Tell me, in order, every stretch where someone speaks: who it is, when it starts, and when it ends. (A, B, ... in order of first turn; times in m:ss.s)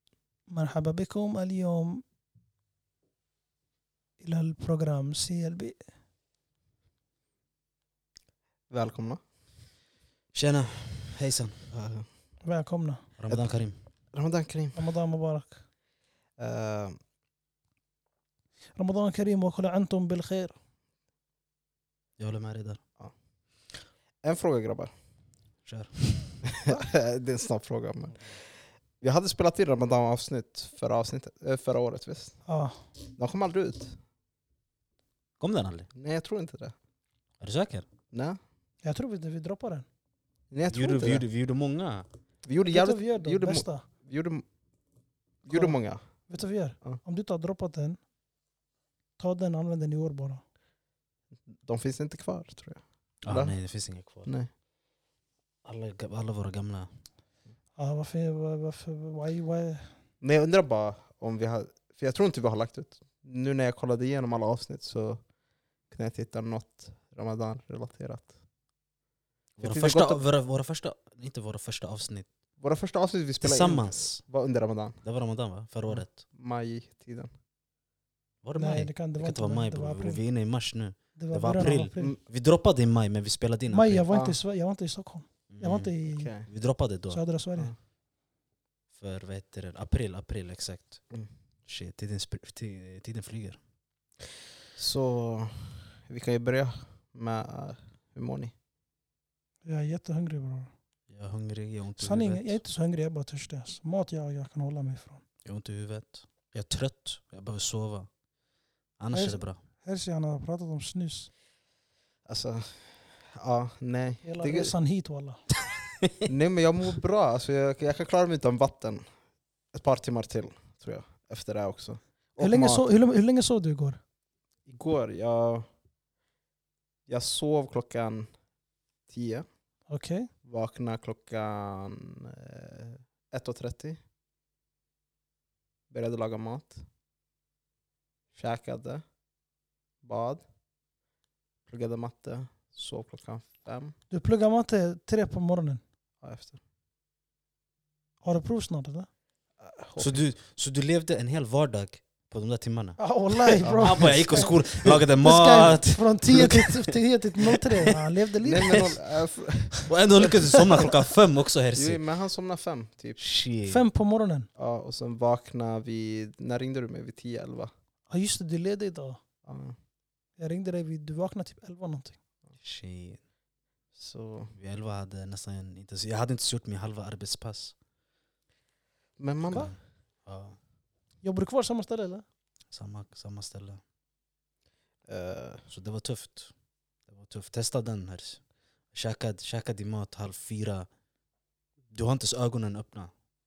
0:00.5-0:02.0 A
0:04.2-0:05.8 A
0:08.7-0:09.2 B
0:10.3-0:11.7 C
0:11.7-0:12.0 B
0:12.4-0:13.0 A
0:13.2-0:13.8 C
0:14.1-0:14.8 B
0:14.8-0:15.6 A
0:16.4-0:17.0 B
0:18.8-0:20.5 A
0:22.2-0:22.8 C
0:24.2-0:24.9 B
0:25.6-0:26.4 C
0:26.4-0:28.2 B
0:29.0-0:32.4 B
0:32.4-0:32.8 A
0:33.2-0:34.0 B
0:35.4-0:35.9 C
0:36.0-0:36.7 B
0:37.4-0:37.8 C
0:38.1-0:38.4 B
0:38.8-0:39.8 A
0:40.5-0:41.2 B
0:40.7-0:42.1 C
0:42.4-0:44.4 B
0:42.6-0:43.8 A
0:45.4-0:46.0 B
0:45.5-0:45.8 A
0:46.3-0:48.0 A
0:49.2-0:50.4 A
0:51.5-0:53.6 B
0:53.2-0:54.3 C
0:54.2-0:54.5 B
0:55.6-0:56.9 C
0:57.8-0:59.9 A
1:00.2-1:05.2 B
1:05.9-1:08.3 B
1:09.6-1:12.3 C
1:09.6-1:10.2 B
1:12.6-1:15.0 B
1:13.4-1:14.2 C
1:15.0-1:16.2 C
1:15.9-1:17.3 B
1:18.4-1:24.1 C
1:18.6-1:20.2 A
1:21.2-1:22.2 A
1:23.7-1:26.3 A
1:24.1-1:24.4 B
1:25.5-1:25.9 C
1:26.1-1:26.5 B
1:26.5-1:27.2 C
1:27.1-1:27.7 A
1:29.0-1:31.0 C
1:31.7-1:33.6 C
1:34.8-1:38.5 B
1:39.6-1:40.7 A
1:41.1-1:42.6 C
1:42.0-1:45.2 A
1:45.4-1:48.1 C
1:49.0-1:49.6 C
1:49.1-1:51.3 A
1:52.3-1:54.7 B
1:54.2-1:55.4 A
1:56.0-1:56.3 C
1:56.3-1:59.0 B
1:59.7-2:02.8 B
2:02.4-2:04.0 A
2:04.7-2:05.7 B
2:07.1-2:08.3 B
2:09.1-2:09.4 B
2:09.9-2:10.3 A
2:10.4-2:14.0 B
2:15.9-2:16.8 B
2:18.3-2:19.0 B
2:20.0-2:20.4 B
2:21.7-2:23.9 B
2:24.1-2:25.8 A
2:26.2-2:26.6 B
2:28.2-2:29.1 A
2:29.6-2:30.2 B
2:30.0-2:37.9 C
2:33.0-2:34.6 A
2:33.6-2:35.0 B
2:35.2-2:38.8 A
2:38.4-2:40.9 B
2:38.6-2:38.9 C
2:39.8-2:42.0 C
2:41.7-2:43.2 B
2:43.2-2:43.8 C
2:43.7-2:44.5 A
2:44.6-2:47.7 B
2:48.1-2:49.2 A
2:49.4-2:49.8 B
2:50.4-2:52.2 A
2:52.6-2:53.2 C
2:53.9-2:54.5 B
2:54.6-2:57.7 C
2:59.2-2:59.7 B
2:59.5-2:59.8 C
3:00.2-3:00.6 C
3:01.2-3:02.2 A
3:02.7-3:03.8 C
3:05.1-3:05.6 B
3:05.7-3:06.5 C
3:07.1-3:08.4 C
3:08.9-3:10.9 C
3:11.9-3:13.1 C